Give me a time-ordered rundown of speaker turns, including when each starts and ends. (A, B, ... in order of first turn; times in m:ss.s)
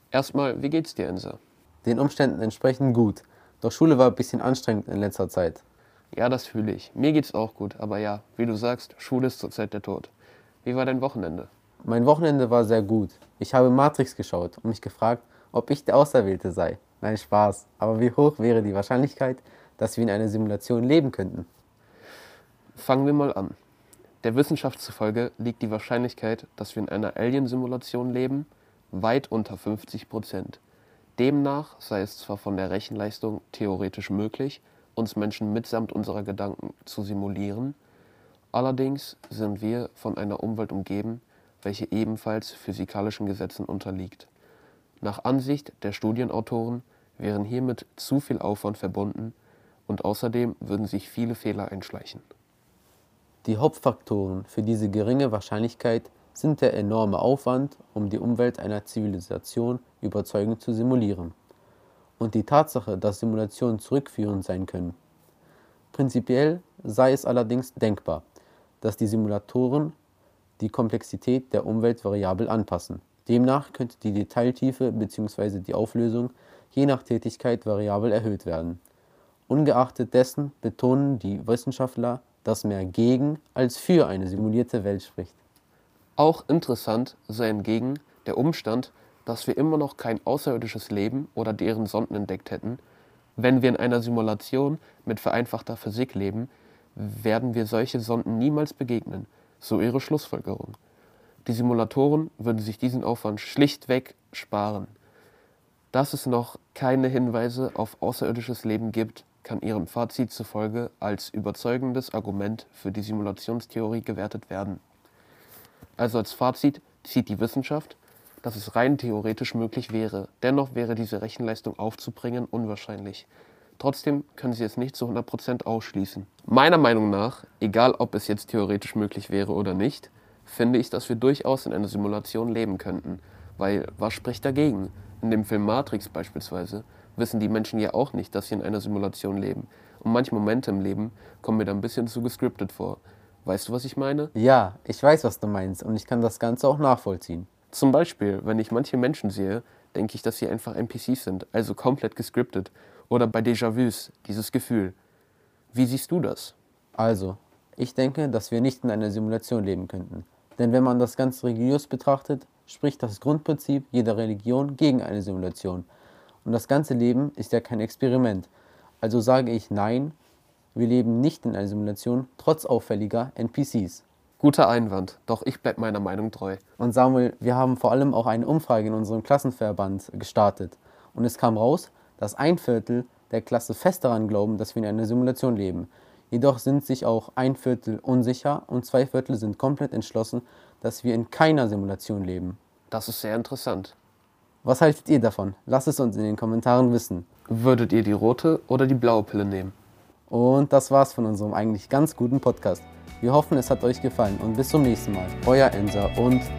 0:00.1-0:01.4 A
0:01.8-0:05.6 B
0:06.1-0:10.1 A
0:10.6-0:11.5 A
0:11.8-0:21.5 B
0:22.8-0:23.6 A
0:24.2-0:30.6 A
0:31.2-0:37.8 A
0:38.5-0:44.3 A
0:45.0-0:49.4 A
0:49.9-0:52.2 A
0:53.4-1:01.4 B
1:02.2-1:05.0 B
1:05.9-1:08.2 B
1:08.8-1:10.0 B
1:10.6-1:18.8 B
1:19.5-1:25.4 B
1:26.2-1:32.8 A
1:33.4-1:40.8 A
1:41.4-1:44.9 A
1:45.9-1:54.8 A
1:56.0-2:24.3 A
2:24.4-2:27.5 B
2:27.7-2:35.0 A
2:35.7-2:36.6 A
2:37.0-2:45.9 B
2:46.4-2:48.5 B
2:49.0-2:50.2 B
2:50.8-2:54.0 B
2:54.4-2:56.6 A
2:56.8-3:12.6 B
3:12.9-3:14.0 A
3:14.6-3:17.3 B
3:17.5-3:19.8 A
3:20.3-3:26.5 B